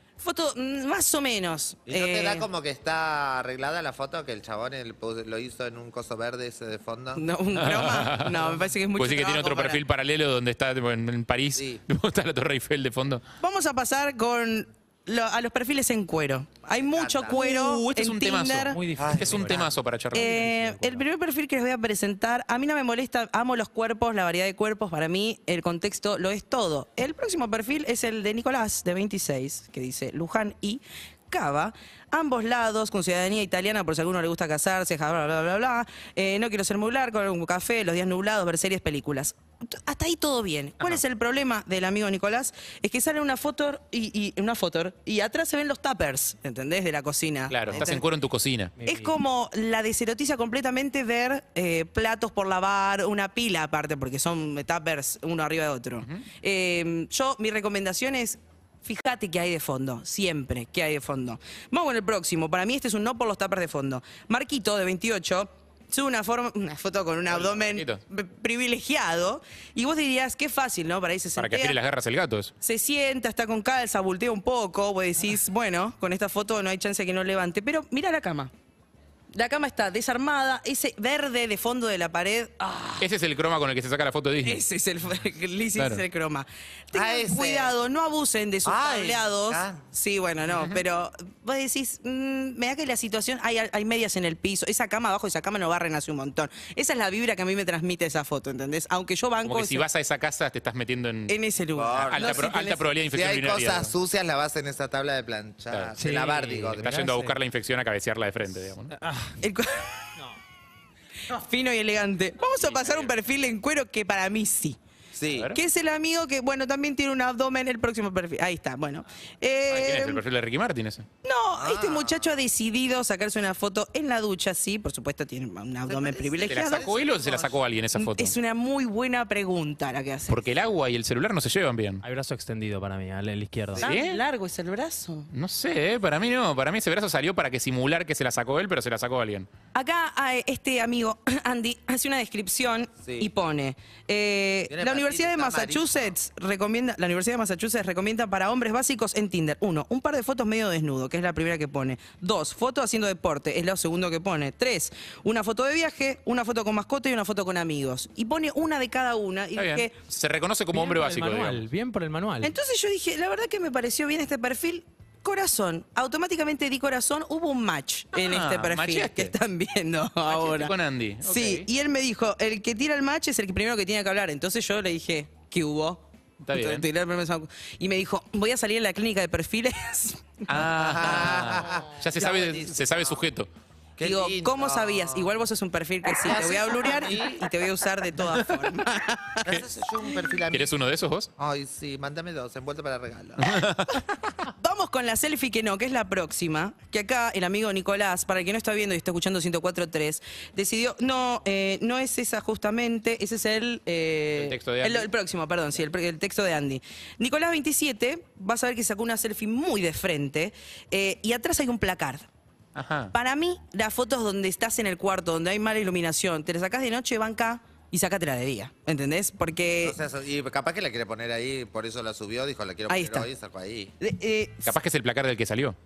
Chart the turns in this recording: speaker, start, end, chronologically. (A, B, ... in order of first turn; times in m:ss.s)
0:00.2-0:02.5 A
0:01.9-0:07.2 B
0:07.1-0:09.8 A
0:07.5-0:13.2 C
0:13.4-0:18.8 A
0:16.7-0:17.4 B
0:17.3-0:20.4 C
0:18.7-0:21.0 D
0:19.0-0:19.7 B
0:20.1-0:48.1 A
0:47.5-0:48.7 C
0:48.8-0:49.1 D
0:48.9-1:11.8 A
1:07.3-1:08.0 C
1:11.4-1:12.5 C
1:12.6-1:18.5 A
1:19.3-1:23.1 A
1:23.0-1:24.6 C
1:24.4-1:39.9 A
1:25.8-1:26.0 C
1:26.9-1:27.8 B
1:28.6-1:29.8 B
1:30.5-1:30.8 C
1:39.4-1:41.3 C
1:41.3-1:42.8 A
1:41.8-1:42.4 B
1:41.9-1:43.9 C
1:43.1-1:47.0 B
1:46.0-1:47.3 D
1:46.8-1:48.9 C
1:48.9-1:49.3 D
1:49.4-1:50.2 A
1:51.3-1:54.8 A
1:52.6-1:53.2 C
1:55.1-1:55.5 B
1:55.3-1:55.6 C
1:55.5-2:00.2 A
1:59.7-2:01.0 C
2:01.2-2:06.9 A
2:01.6-2:02.3 B
2:05.9-2:07.6 B
2:06.5-2:08.4 C
2:07.9-2:10.4 A
2:10.3-2:12.0 C
2:12.0-2:13.9 D
2:13.8-2:14.2 C
2:13.8-2:15.3 A
2:15.3-2:19.5 C
2:19.7-2:39.9 A
2:23.0-2:23.3 B
2:24.7-2:26.2 B
2:39.6-2:41.6 C
2:40.7-2:42.5 D
2:42.4-2:50.7 A
2:48.1-2:49.3 C
2:50.3-2:51.7 C
2:51.2-3:00.6 A
2:56.4-2:56.9 C
3:00.5-3:03.5 C
3:00.8-3:03.2 B
3:04.0-3:05.4 B
3:04.0-3:10.2 A
3:06.1-3:07.5 B
3:09.4-3:10.7 B
3:10.5-3:11.3 C
3:11.4-3:13.4 B
3:13.4-3:14.0 C
3:13.9-3:32.3 A
3:24.3-3:25.1 C
3:32.8-3:33.1 C
3:33.1-3:40.0 A
3:39.8-3:43.9 B
3:42.9-3:43.3 A
3:44.0-3:44.7 A
3:44.6-3:45.8 C